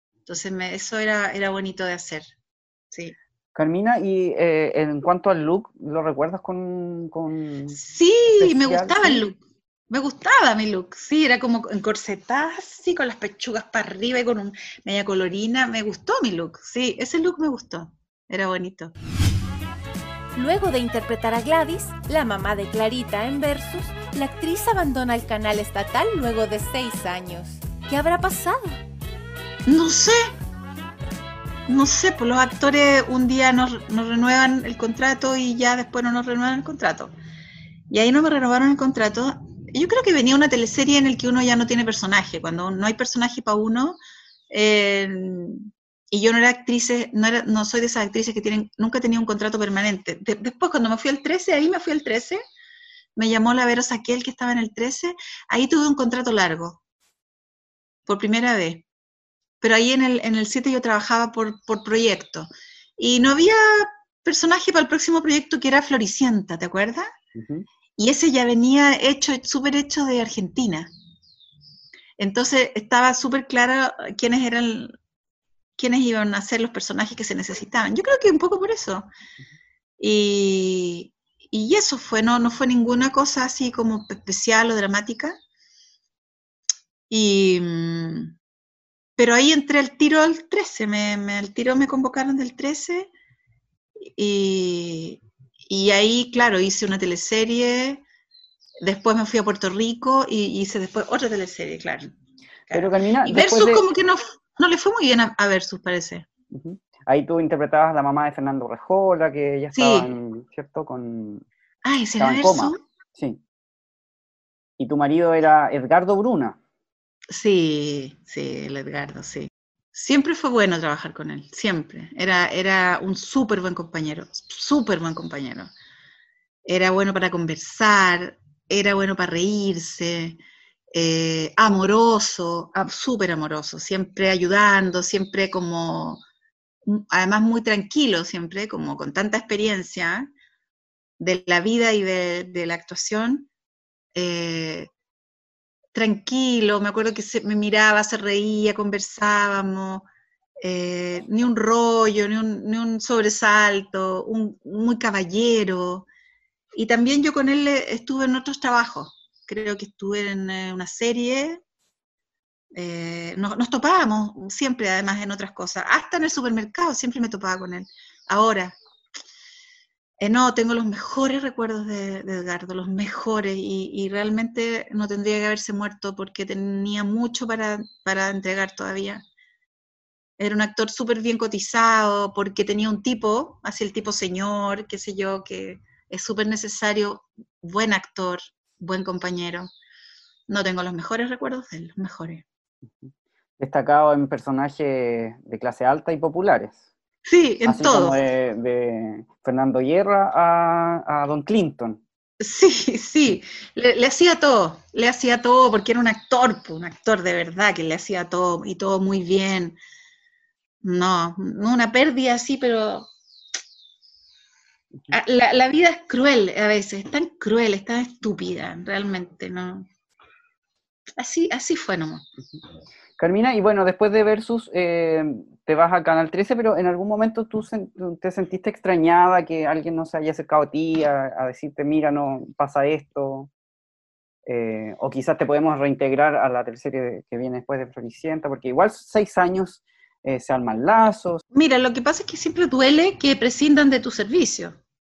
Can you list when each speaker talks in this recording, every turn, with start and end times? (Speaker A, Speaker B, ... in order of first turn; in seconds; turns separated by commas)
Speaker A: 0.3-2.3, Speaker B: 3.5-7.8, Speaker A: 7.8-9.4, Speaker B: 8.4-9.2, Speaker A: 9.9-18.9, Speaker C: 20.4-28.8, Speaker A: 29.7-30.3, Speaker A: 31.7-37.1, Speaker A: 37.9-44.0, Speaker A: 44.5-52.4, Speaker A: 53.2-56.8, Speaker A: 58.1-58.9, Speaker A: 59.6-67.1, Speaker B: 67.4-67.7, Speaker A: 68.0-70.9, Speaker A: 72.2-75.0, Speaker A: 75.8-79.1, Speaker A: 80.0-85.4, Speaker A: 87.1-88.3, Speaker A: 89.2-93.1, Speaker A: 94.1-98.0, Speaker A: 98.8-102.1, Speaker A: 102.7-106.3, Speaker B: 102.7-103.9, Speaker B: 106.5-111.5, Speaker A: 109.8-110.1, Speaker A: 111.8-112.8, Speaker B: 112.2-113.4, Speaker B: 114.8-116.6, Speaker A: 117.3-125.7, Speaker A: 126.7-130.4, Speaker A: 130.9-136.2, Speaker A: 136.9-140.3, Speaker A: 141.2-143.5, Speaker A: 144.2-144.9, Speaker A: 145.9-150.1, Speaker A: 150.6-156.1, Speaker A: 156.8-161.6, Speaker A: 162.8-168.7, Speaker A: 170.2-179.2, Speaker A: 180.4-189.7, Speaker A: 190.5-192.4, Speaker B: 193.0-196.9, Speaker A: 197.3-198.2, Speaker B: 197.7-202.0, Speaker A: 202.4-209.8, Speaker A: 210.8-213.1, Speaker A: 215.1-219.9, Speaker A: 221.2-222.2, Speaker B: 223.2-233.5, Speaker B: 234.5-241.4, Speaker A: 241.5-244.8